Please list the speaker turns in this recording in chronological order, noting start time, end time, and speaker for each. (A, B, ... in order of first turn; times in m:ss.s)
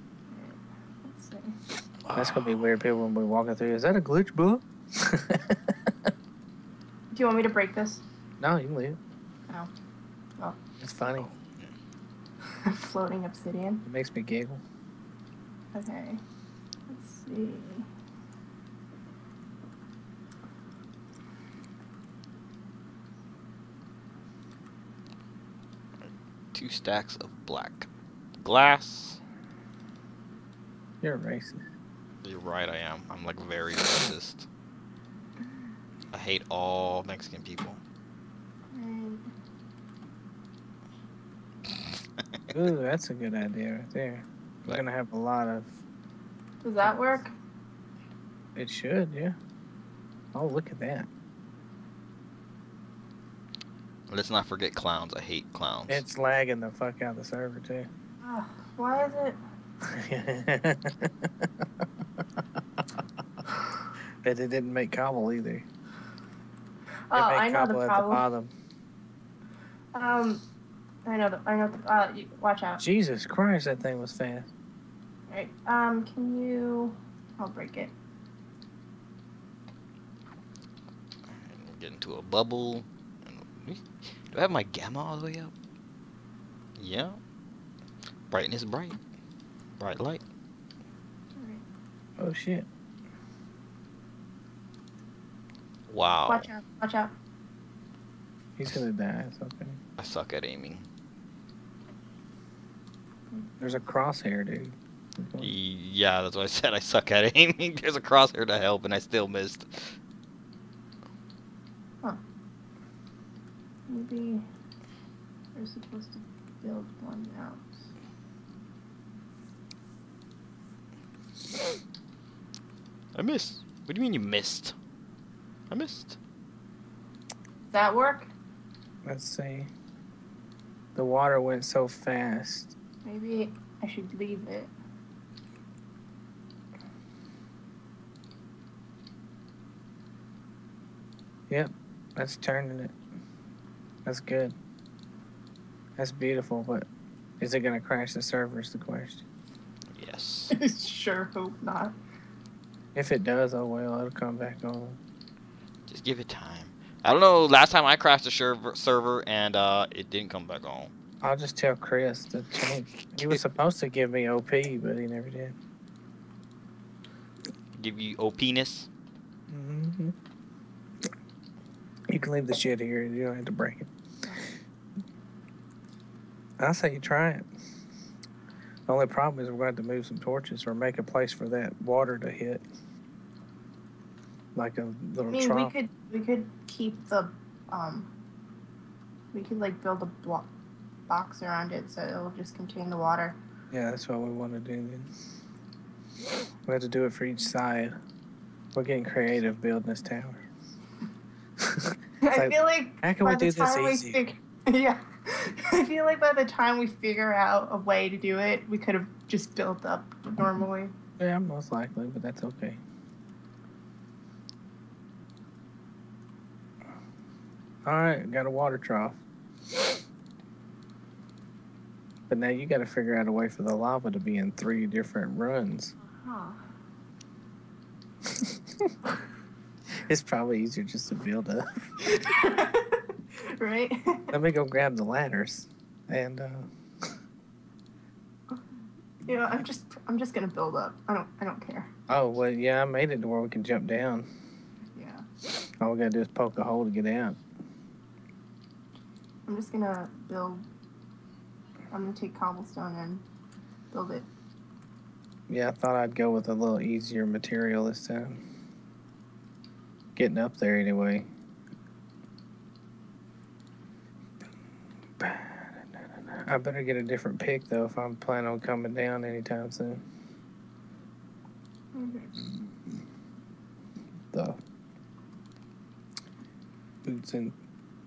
0:00.3-0:01.6 A
0:02.0-0:02.6 B
0:02.1-0:06.1 C
0:07.1-0:08.0 A
0:08.4-0:09.0 C
0:10.8-0:11.3 C
0:12.5-0:13.8 A
0:13.8-0:14.6 C
0:15.7-0:16.2 A
0:16.9-0:17.9 A
0:26.5-0:27.9 B
0:28.4-0:29.2 B
0:31.0-0:31.6 C
0:32.2-0:34.5 B
0:36.1-0:37.8 B
0:38.7-0:39.3 A
0:42.5-0:45.8 C
0:46.6-0:47.3 A
0:48.6-0:49.4 C
0:50.3-0:51.1 C
0:54.1-0:56.0 B
0:55.9-0:57.9 C
0:58.2-0:59.4 A
0:59.8-1:01.7 C
1:04.2-1:05.7 C
1:07.1-1:08.2 A
1:07.1-1:08.5 C
1:09.9-1:10.4 A
1:11.0-1:12.8 A
1:12.8-1:14.5 C
1:15.3-1:17.9 A
1:21.4-1:25.5 B
1:26.8-1:27.2 B
1:28.3-1:29.0 B
1:29.8-1:30.2 B
1:31.4-1:31.6 A
1:32.2-1:32.7 C
1:35.9-1:36.5 B
1:36.3-1:37.1 A
1:38.6-1:39.8 C
1:40.0-1:40.8 B
1:43.6-1:45.5 C
1:45.4-1:49.9 B
1:53.9-1:54.4 A
1:55.6-1:57.7 A
2:03.2-2:04.8 B
2:05.7-2:06.2 B
2:07.7-2:08.3 A
2:09.0-2:09.7 C
2:11.0-2:12.7 C
2:13.0-2:14.7 A
2:21.5-2:22.9 C
2:24.0-2:24.6 C
2:26.0-2:26.9 C
2:27.4-2:29.2 C
2:30.0-2:30.6 B
2:30.5-2:32.0 A
2:33.0-2:35.0 C
2:35.9-2:40.9 B
2:41.2-2:45.6 C
2:47.8-2:48.9 B
2:49.5-2:50.2 C
2:52.1-2:53.9 C
2:56.6-2:57.5 C
2:58.9-3:02.6 C
3:04.6-3:05.7 C
3:05.3-3:08.1 A
3:09.3-3:10.5 A
3:11.1-3:13.4 A
3:13.7-3:15.1 C
3:16.7-3:18.0 C
3:18.7-3:20.4 C
3:21.6-3:24.2 C
3:22.2-3:30.9 A
3:31.2-3:32.8 C
3:37.8-3:39.2 C
3:42.3-3:46.0 C
3:46.2-3:46.6 A
3:48.3-3:48.9 C
3:50.1-3:52.1 C
3:52.0-3:54.4 A
3:54.3-3:57.1 C
3:59.2-4:01.9 A
4:02.1-4:04.3 C
4:05.0-4:05.2 A
4:05.8-4:07.4 C
4:09.5-4:10.6 A
4:11.9-4:13.2 A
4:13.9-4:14.3 A
4:15.5-4:18.4 C
4:20.2-4:21.3 C
4:25.2-4:30.0 C
4:31.9-4:32.4 A
4:32.4-4:33.0 C
4:34.3-4:34.6 C
4:37.0-4:37.6 C